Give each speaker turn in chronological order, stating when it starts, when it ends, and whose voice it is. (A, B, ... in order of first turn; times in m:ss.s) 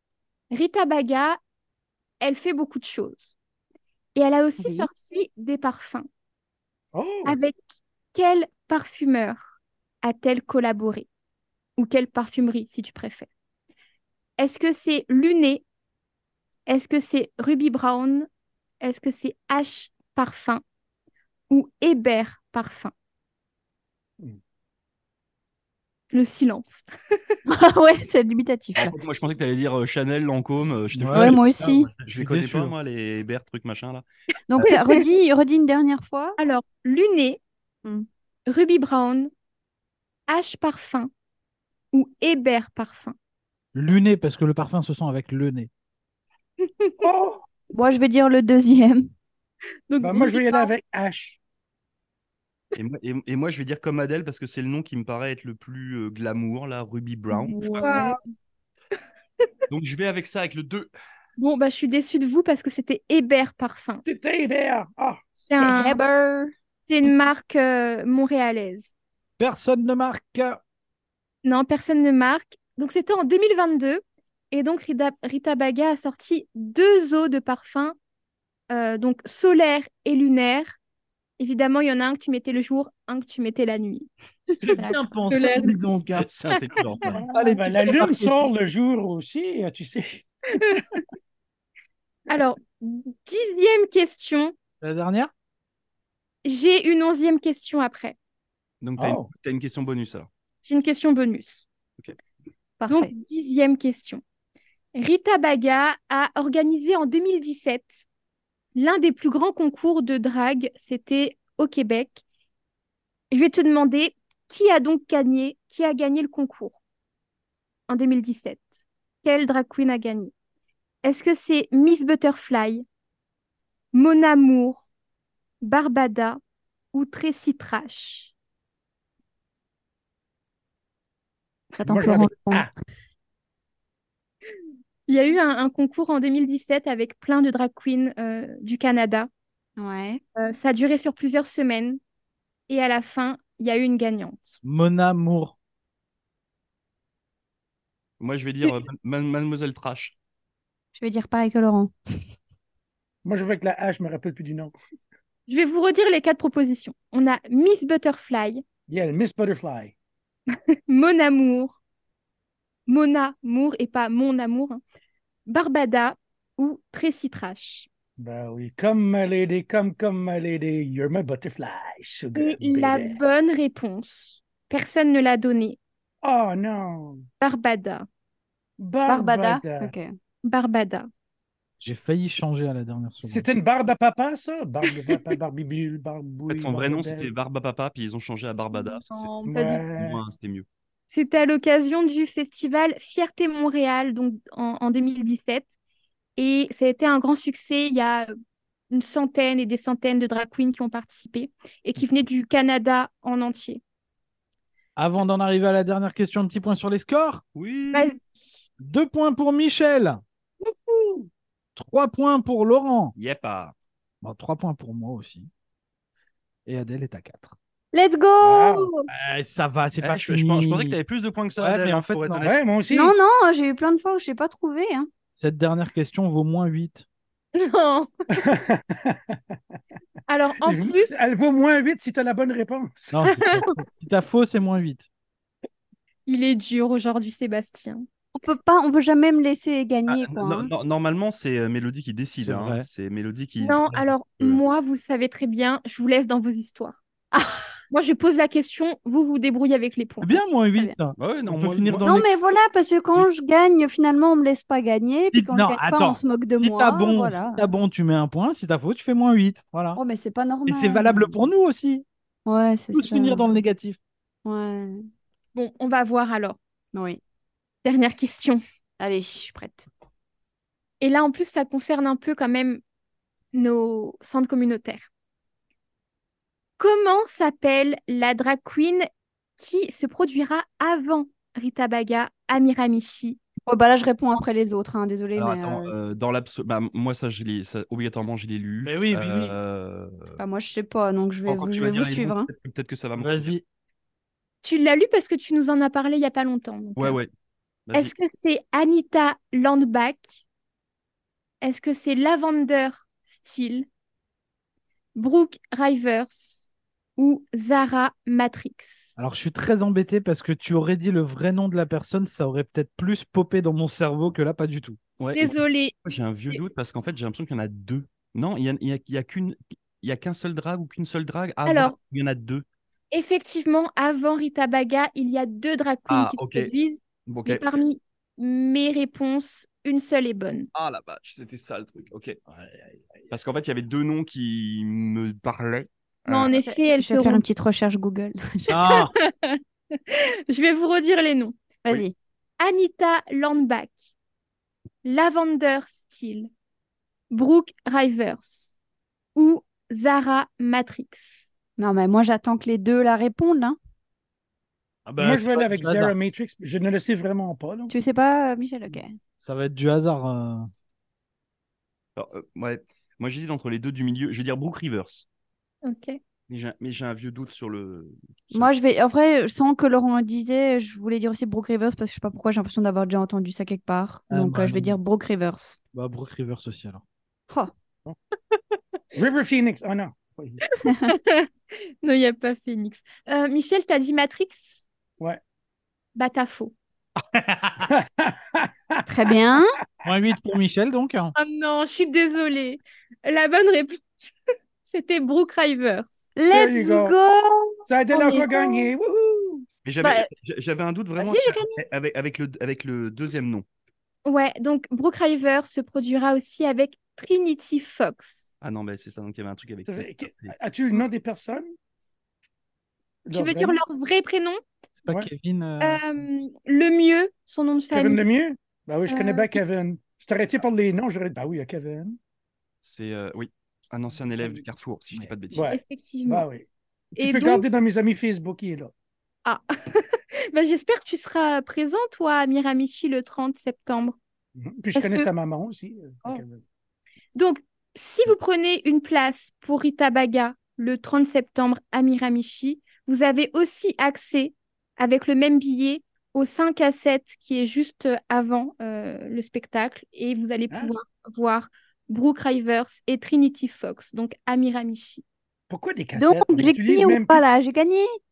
0:00.5-0:01.4 A
0:02.2-0:03.3 A
0:04.2-0:06.1 A
0:04.6-0:04.9 B
0:06.9-0:07.4 C
0:07.2-0:07.6 A
0:08.1-0:11.1 A
0:11.8-0:13.3 A
0:14.4-0:15.6 A
0:16.7-0:18.3 A
0:18.8-0:20.6 A
0:21.5-0:22.9 A
0:26.1-0:27.4 A
0:27.5-0:29.0 B
0:28.8-0:34.0 D
0:30.9-0:32.7 E
0:31.1-0:31.9 B
0:34.5-0:36.4 B
0:36.4-0:37.4 A
0:38.5-0:39.3 A
0:40.3-0:41.1 A
0:41.9-0:43.2 A
0:43.7-0:45.7 E
0:46.6-0:47.1 A
0:47.0-0:47.4 C
0:47.7-0:49.1 B
0:49.9-0:50.7 A
0:50.0-0:51.4 C
0:52.8-0:58.0 D
0:57.4-0:58.2 B
0:57.7-0:58.2 A
0:59.7-1:00.9 D
1:01.4-1:04.0 A
1:04.0-1:05.2 C
1:05.4-1:06.0 A
1:05.6-1:06.5 B
1:06.9-1:08.9 A
1:09.4-1:10.6 E
1:11.4-1:18.0 A
1:18.7-1:20.8 A
1:21.4-1:25.8 A
1:24.6-1:28.5 E
1:26.1-1:27.2 D
1:27.1-1:30.6 C
1:30.6-1:31.0 A
1:32.3-1:34.5 A
1:34.8-1:35.3 E
1:36.4-1:38.2 A
1:38.8-1:40.3 D
1:39.0-1:39.3 C
1:40.6-1:41.6 A
1:42.8-1:43.1 B
1:42.9-1:44.2 A
1:45.0-1:48.1 A
1:48.8-1:52.2 A
1:53.3-1:56.8 A
1:57.9-1:58.7 A
1:59.2-2:00.3 A
2:01.0-2:02.8 A
2:03.9-2:04.9 A
2:05.6-2:06.4 A
2:06.9-2:08.3 A
2:11.8-2:12.7 B
2:11.8-2:12.7 C
2:15.1-2:19.3 A
2:19.8-2:20.2 B
2:20.4-2:22.0 A
2:22.7-2:24.6 A
2:24.6-2:25.6 E
2:28.2-2:30.2 D
2:31.0-2:31.9 B
2:33.2-2:34.8 C
2:35.5-2:38.6 A
2:38.9-2:39.9 C
2:40.9-2:41.8 A
2:42.9-2:44.8 A
2:45.5-2:47.9 A
2:48.2-2:53.2 C
2:52.4-2:55.8 A
2:56.2-2:57.2 C
2:57.4-2:58.1 A
2:58.8-2:59.9 C
2:59.1-3:00.1 B
3:00.4-3:01.1 A
3:01.8-3:03.5 E
3:03.2-3:07.3 C
3:06.5-3:09.3 D
3:08.7-3:09.8 A
3:09.5-3:10.2 C
3:10.0-3:10.7 D
3:11.1-3:15.7 A
3:16.4-3:18.3 A
3:18.9-3:23.8 A
3:25.0-3:27.4 E
3:27.6-3:28.2 D
3:27.9-3:28.7 A
3:28.8-3:30.2 E
3:30.7-3:31.3 C
3:31.8-3:33.2 E
3:33.2-3:33.7 D
3:34.2-3:35.5 E
3:36.7-3:37.6 E
3:37.9-3:39.1 B
3:38.4-3:38.9 C
3:39.1-3:41.0 E
3:40.0-3:42.6 D
3:41.6-3:42.5 E
3:42.4-3:43.2 C
3:42.9-3:45.1 B
3:45.4-3:47.1 E
3:47.6-3:48.1 A
3:48.4-3:49.4 C
3:50.3-3:51.3 A
3:50.6-3:53.6 C
3:53.1-3:55.1 E
3:53.4-3:53.7 A
3:56.3-3:58.1 A
3:58.4-4:00.7 B
4:00.1-4:04.6 D
4:02.4-4:02.9 E
4:03.6-4:07.0 A
4:07.3-4:07.7 B
4:07.9-4:10.4 A
4:10.2-4:12.4 E
4:11.2-4:12.1 D
4:12.0-4:17.6 B
4:15.3-4:20.0 E
4:20.0-4:21.4 B
4:20.7-4:22.0 E
4:22.5-4:23.5 B
4:22.9-4:24.0 E
4:24.4-4:25.1 B
4:25.6-4:26.6 A
4:26.9-4:27.2 B
4:27.8-4:28.6 A
4:29.0-4:29.9 B
4:31.0-4:32.8 A
4:33.5-4:35.1 A
4:36.8-4:39.0 A
4:39.6-4:43.4 A
4:43.7-4:46.0 B
4:45.4-4:50.4 D
4:48.8-4:49.6 E
4:50.4-4:52.5 B
4:51.5-4:53.5 D
4:53.2-4:53.6 E
4:54.6-4:57.2 A
4:57.0-4:57.3 D
4:57.9-4:58.1 D
4:57.9-5:00.4 A
5:01.6-5:03.9 A
5:05.2-5:09.2 A
5:09.2-5:15.0 E
5:15.2-5:22.6 D
5:15.4-5:16.0 A
5:21.7-5:22.0 A
5:23.1-5:30.7 A
5:26.1-5:26.7 D
5:27.3-5:27.7 D
5:30.7-5:32.4 D
5:33.3-5:36.5 D
5:36.3-5:37.4 A
5:36.5-5:38.8 B
5:38.7-5:39.1 E
5:38.8-5:41.6 A
5:41.8-5:42.1 B
5:42.6-5:44.0 A
5:45.0-5:46.5 A
5:47.3-5:48.8 A
5:49.4-5:51.5 A
5:51.8-5:53.8 B
5:55.1-5:56.1 E
5:55.2-5:57.9 C
5:57.9-5:59.2 B
5:59.4-6:00.7 E
6:02.2-6:05.3 D
6:05.8-6:06.2 A
6:06.5-6:08.7 D
6:08.5-6:15.8 B
6:14.3-6:15.0 E
6:15.9-6:17.0 E
6:19.2-6:20.7 C
6:20.7-6:24.8 A
6:20.8-6:21.1 B
6:26.2-6:26.8 A
6:27.3-6:27.9 E
6:27.8-6:30.0 C
6:29.1-6:29.8 B
6:30.0-6:31.3 E
6:31.4-6:34.3 A
6:34.8-6:36.2 A
6:36.4-6:37.8 B
6:36.5-6:37.2 C
6:37.9-6:39.7 C
6:38.1-6:38.9 A
6:39.8-6:43.6 D
6:40.0-6:40.3 A
6:41.2-6:41.9 B
6:44.3-6:48.5 A
6:48.6-6:50.6 D
6:49.9-6:51.7 C
6:53.3-6:53.8 C
6:53.3-6:54.6 A
6:55.0-6:56.0 E
6:55.8-6:58.2 A
6:57.9-7:02.2 C
6:59.1-6:59.6 A
7:02.8-7:05.8 D
7:05.5-7:08.9 C
7:05.7-7:06.5 A
7:07.2-7:07.6 A
7:09.4-7:14.2 A
7:14.6-7:16.6 C
7:15.0-7:15.3 A
7:17.4-7:35.2 A
7:35.7-7:37.4 C
7:36.2-7:38.1 B